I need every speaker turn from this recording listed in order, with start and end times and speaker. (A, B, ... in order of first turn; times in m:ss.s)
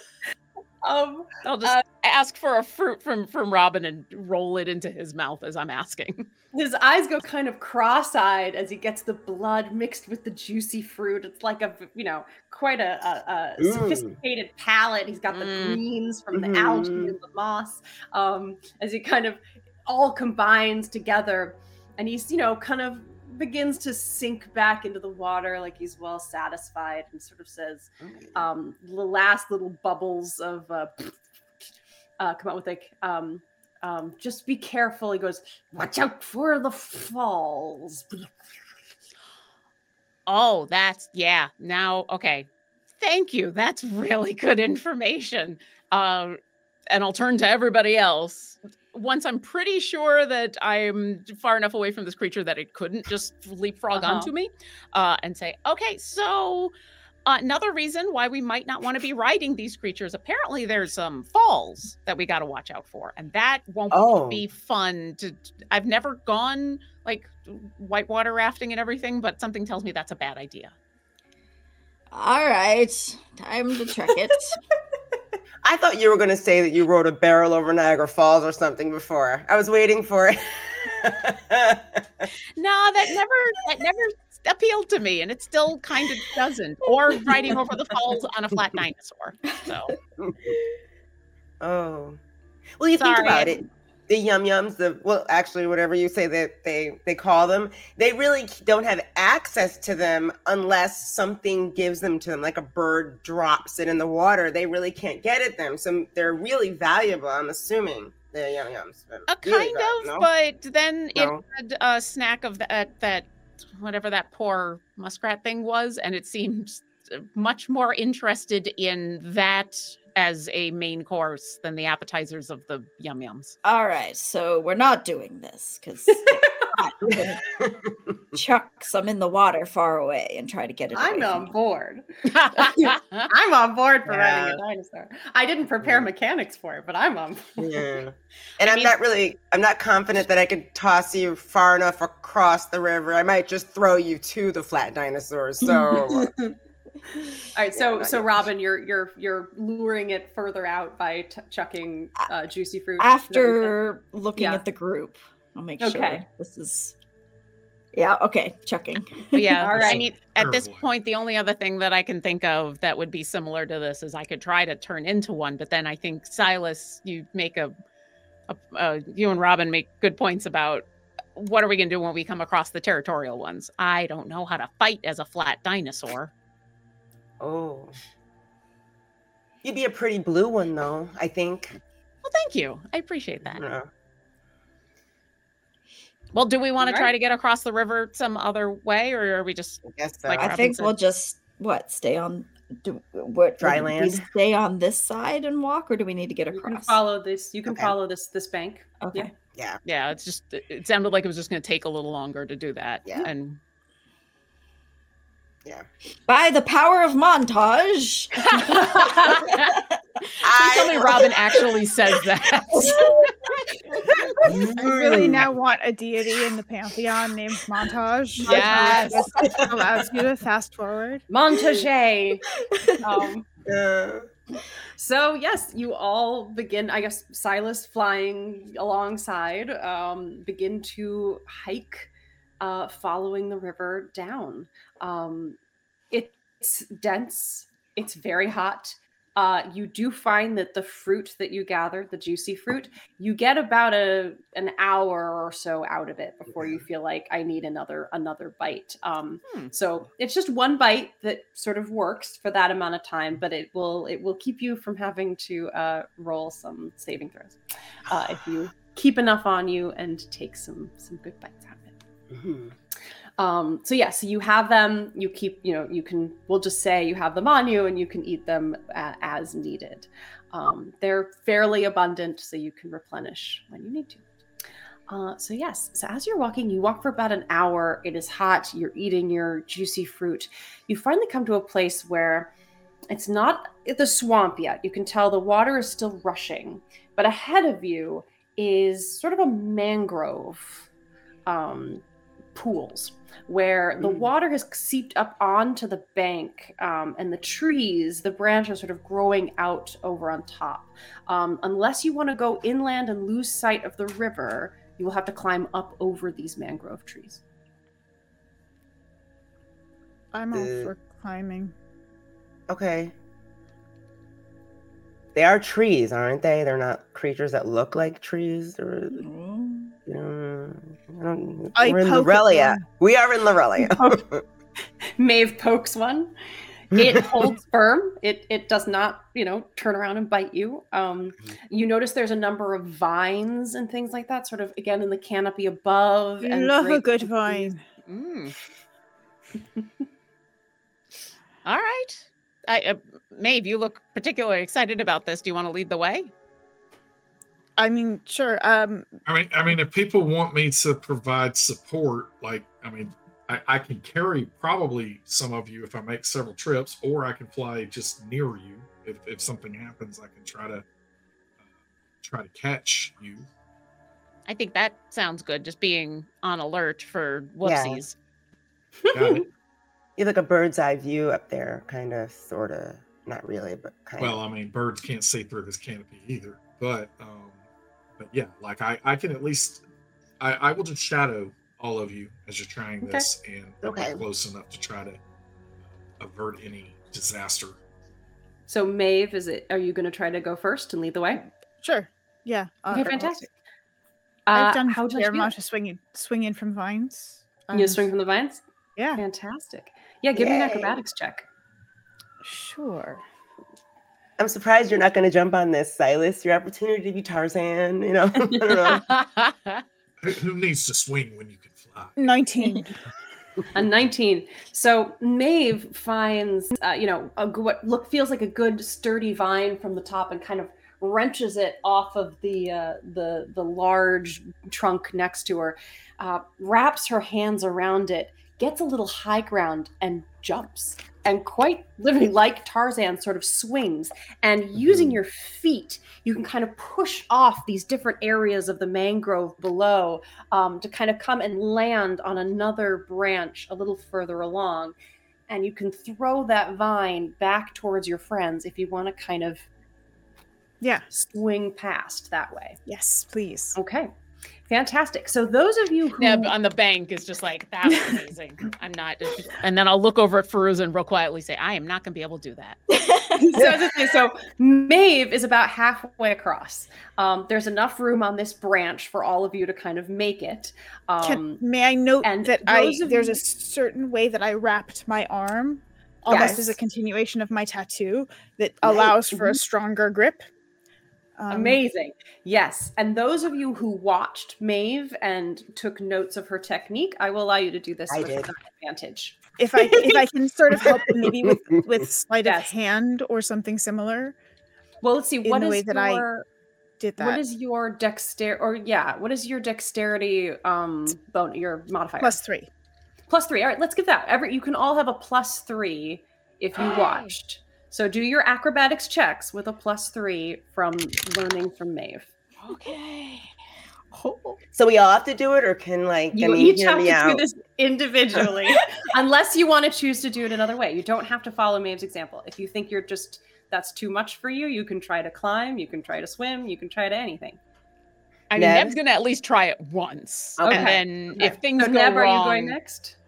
0:00.8-0:01.8 A
0:01.4-0:06.3 B
0:06.5-0:31.1 A
0:13.6-0:14.1 C
0:15.3-0:15.8 B
0:16.3-0:17.1 C
0:28.0-0:28.4 C
0:32.2-0:38.3 A
0:40.3-0:42.5 B
0:43.0-0:46.4 B
0:46.9-0:56.7 B
0:53.9-0:54.3 A
0:57.2-1:10.7 B
1:03.9-1:04.4 C
1:12.1-1:14.6 D
1:15.6-1:22.2 C
1:22.6-1:29.9 B
1:30.2-1:30.6 C
1:31.6-1:32.2 C
1:32.8-1:50.3 C
1:33.0-1:33.6 B
1:49.3-2:03.6 B
1:51.1-1:51.4 C
2:03.6-2:07.4 D
2:07.1-2:07.9 C
2:08.3-2:11.5 D
2:10.9-2:17.7 A
2:12.3-2:13.3 B
2:14.1-2:14.6 C
2:15.8-2:16.1 C
2:17.6-2:26.3 C
2:18.6-2:18.9 B
2:26.1-2:26.5 A
2:27.5-2:33.8 A
2:27.8-2:28.3 C
2:33.0-2:36.9 D
2:34.4-2:34.6 A
2:35.8-2:36.2 A
2:37.9-2:40.0 D
2:39.3-2:47.7 B
2:39.6-2:40.0 A
2:39.8-2:40.8 E
2:48.5-2:56.3 B
2:57.4-2:57.9 C
2:59.6-3:01.8 C
3:02.2-3:03.6 B
3:03.5-3:03.9 C
3:06.3-3:10.9 B
3:06.8-3:07.1 A
3:09.8-3:10.5 C
3:10.4-3:17.0 D
3:13.6-3:14.2 C
3:16.5-3:19.3 A
3:17.7-3:17.9 C
3:19.0-3:19.3 D
3:19.5-3:19.8 C
3:19.8-3:23.6 B
3:26.3-3:29.9 D
3:28.5-3:29.4 A
3:29.3-3:29.6 B
3:30.4-3:31.7 C
3:30.5-3:33.2 B
3:32.8-3:33.3 D
3:34.4-3:35.5 C
3:34.8-3:41.2 F
3:38.4-3:39.4 B
3:39.4-3:40.0 C
3:41.3-3:42.4 A
3:42.7-3:43.0 D
3:43.0-3:43.5 A
3:43.6-3:44.3 C
3:45.0-3:55.6 A
3:56.1-4:22.0 A
4:22.3-4:22.7 C
4:23.4-4:34.2 A
4:35.1-4:42.5 A
4:43.1-4:50.9 A
4:51.5-4:52.0 A
4:52.5-5:07.4 A
4:54.0-4:54.3 C
5:10.3-5:11.7 F
5:10.5-5:10.9 C
5:12.7-5:13.1 C
5:15.3-5:19.3 C
5:19.1-5:20.0 D
5:20.1-5:24.4 C
5:21.8-5:22.9 F
5:25.2-5:26.3 A
5:26.9-5:37.7 A
5:27.0-5:27.4 C
5:36.4-5:37.8 F
5:38.1-5:38.6 B
5:41.6-5:46.3 B
5:47.8-5:49.1 F
5:49.2-6:00.8 E
6:02.2-6:03.4 E
6:04.5-6:08.1 B
6:07.6-6:08.0 C
6:09.1-6:09.5 E
6:10.2-6:14.4 C
6:14.2-6:17.6 E
6:18.2-6:19.8 E
6:20.4-6:25.2 E
6:23.0-6:23.3 A
6:23.8-6:24.2 C
6:26.2-6:27.8 E
6:28.7-6:31.4 A
6:31.3-6:33.5 F
6:32.9-6:33.4 A
6:34.5-6:35.5 A
6:34.5-6:38.1 F
6:37.7-6:38.6 A
6:39.0-6:39.2 F
6:39.1-6:41.4 A
6:40.3-6:41.0 C
6:42.4-6:43.2 F
6:44.4-6:49.2 C
6:48.7-6:49.8 B
6:50.2-6:52.1 E
6:52.2-6:52.9 F
6:53.7-7:24.9 A
7:14.8-7:15.2 C
7:25.5-7:29.6 A
7:31.1-7:32.8 A
7:32.9-7:33.8 F
7:33.7-7:34.1 A
7:34.7-7:36.5 A
7:36.2-7:42.8 B
7:42.9-7:43.7 D
7:43.4-7:51.6 A
7:51.2-8:00.5 F
7:52.2-7:53.4 A
7:56.2-7:56.6 A
7:56.3-7:56.7 C
8:01.4-8:01.8 F
8:01.5-8:10.2 A
8:08.1-8:08.5 C
8:09.6-8:14.4 F
8:11.1-8:11.8 C
8:12.4-8:12.7 A
8:15.0-8:16.4 A
8:15.4-8:16.2 F
8:17.0-8:17.4 F
8:17.2-8:22.4 A
8:22.2-8:22.7 F
8:23.3-8:32.3 A
8:34.2-8:34.5 F
8:34.7-8:37.4 C
8:36.3-8:47.6 A
8:48.5-8:52.8 B
8:48.6-8:49.0 C
8:50.6-8:51.5 C
8:50.6-8:53.2 A